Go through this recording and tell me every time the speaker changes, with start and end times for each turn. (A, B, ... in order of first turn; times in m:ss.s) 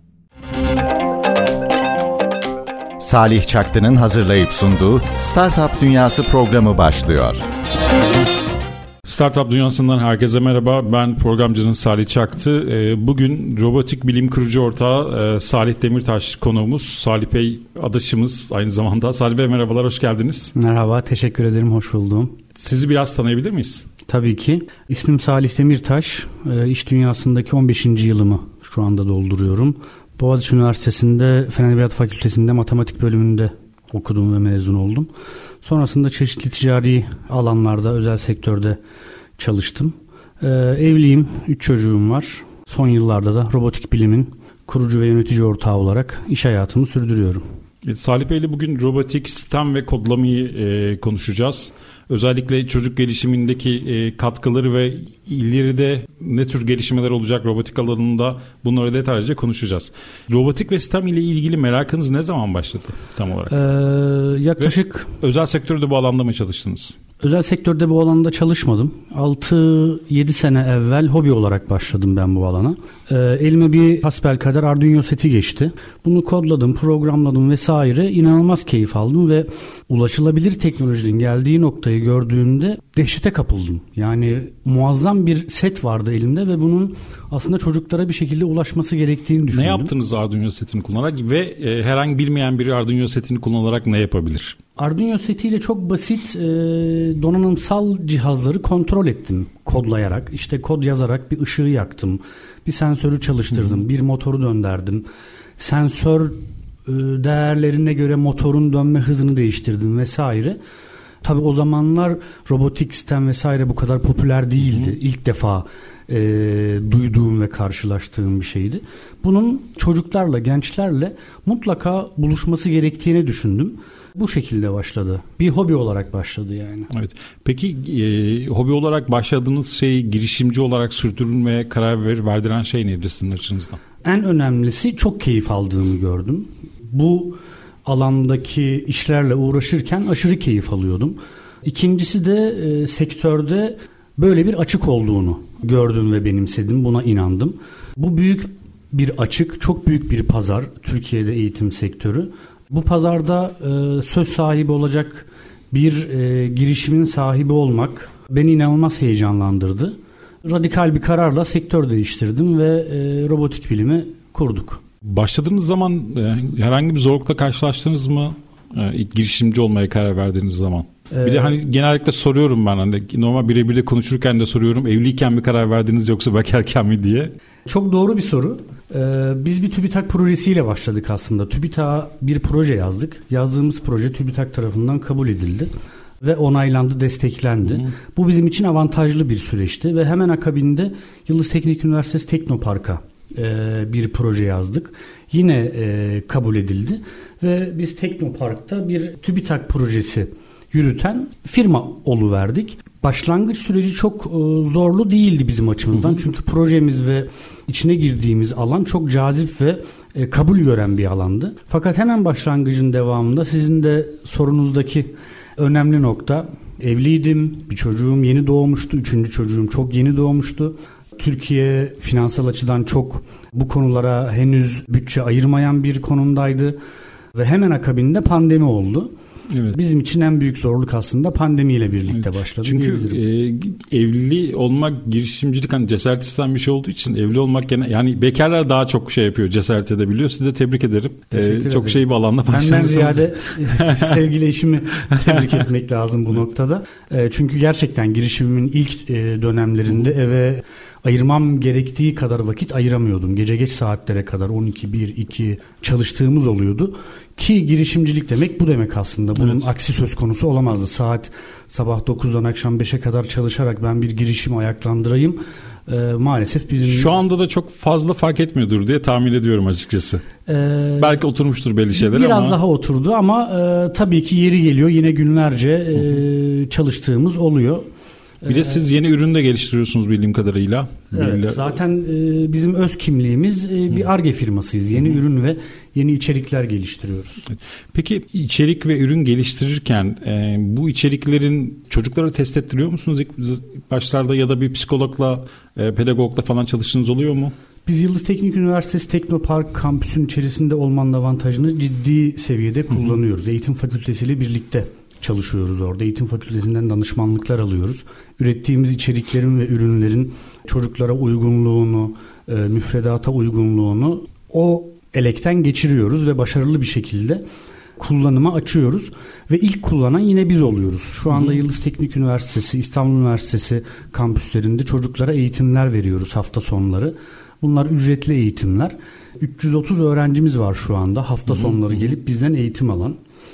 0:03.0-0:07.4 A
0:09.0-0:20.5 B
0:20.5-0:22.4 C
0:22.5-0:23.9 B
0:24.1-0:35.1 C
0:35.6-0:38.8 C
0:39.4-0:47.4 C
0:47.8-1:03.6 B
1:03.5-1:05.1 C
1:04.6-1:07.0 B
1:07.2-1:29.9 C
1:29.5-1:34.6 B
1:34.8-1:45.0 C
1:45.6-1:50.6 C
1:51.2-2:06.9 C
2:06.9-2:13.8 B
2:14.0-2:44.8 C
2:45.0-2:57.3 B
2:51.1-2:51.6 C
2:57.6-3:46.8 C
3:47.3-3:49.1 C
3:49.5-3:49.8 B
3:49.7-3:53.2 C
3:52.6-4:04.2 B
4:01.3-4:27.2 C
4:19.4-4:19.7 B
4:26.8-4:30.2 B
4:30.4-4:31.2 C
4:31.0-4:32.6 B
4:31.9-4:37.8 C
4:38.4-4:38.8 C
4:38.5-4:41.7 B
4:41.1-4:47.4 C
4:47.5-4:57.5 B
4:57.8-5:17.4 C
5:18.0-5:33.2 C